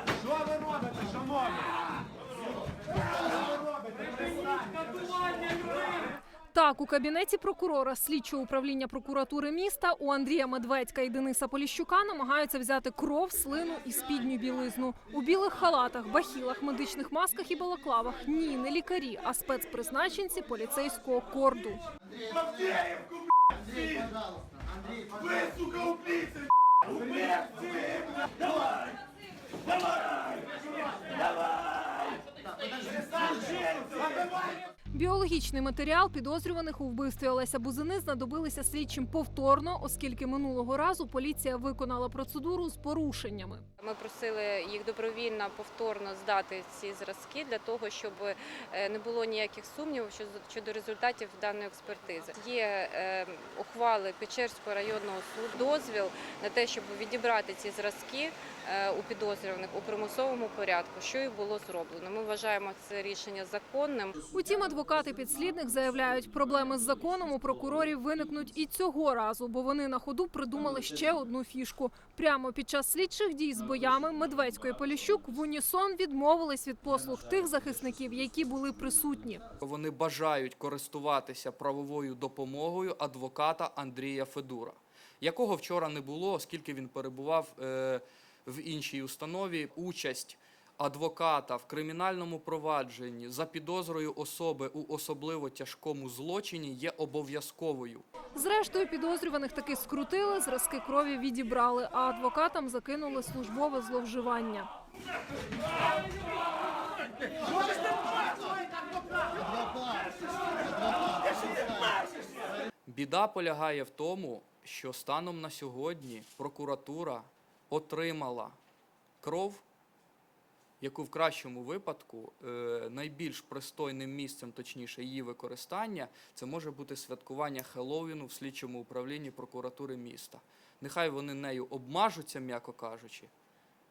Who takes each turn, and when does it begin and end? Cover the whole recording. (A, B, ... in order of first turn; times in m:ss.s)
0:06.5-0:21.8 A
0:22.4-0:23.0 B
0:23.7-0:24.1 B
0:25.4-0:26.2 B
0:27.0-0:27.9 B
0:34.9-0:43.6 A
0:43.8-1:04.2 C
1:04.1-1:08.6 B
1:04.3-1:19.4 A
1:10.5-1:11.2 B
1:13.5-1:15.4 B
1:16.8-1:19.6 B
1:19.6-1:38.1 D
1:38.3-1:44.7 A
1:52.8-1:58.6 D
1:59.2-1:59.6 D
2:00.8-2:13.3 D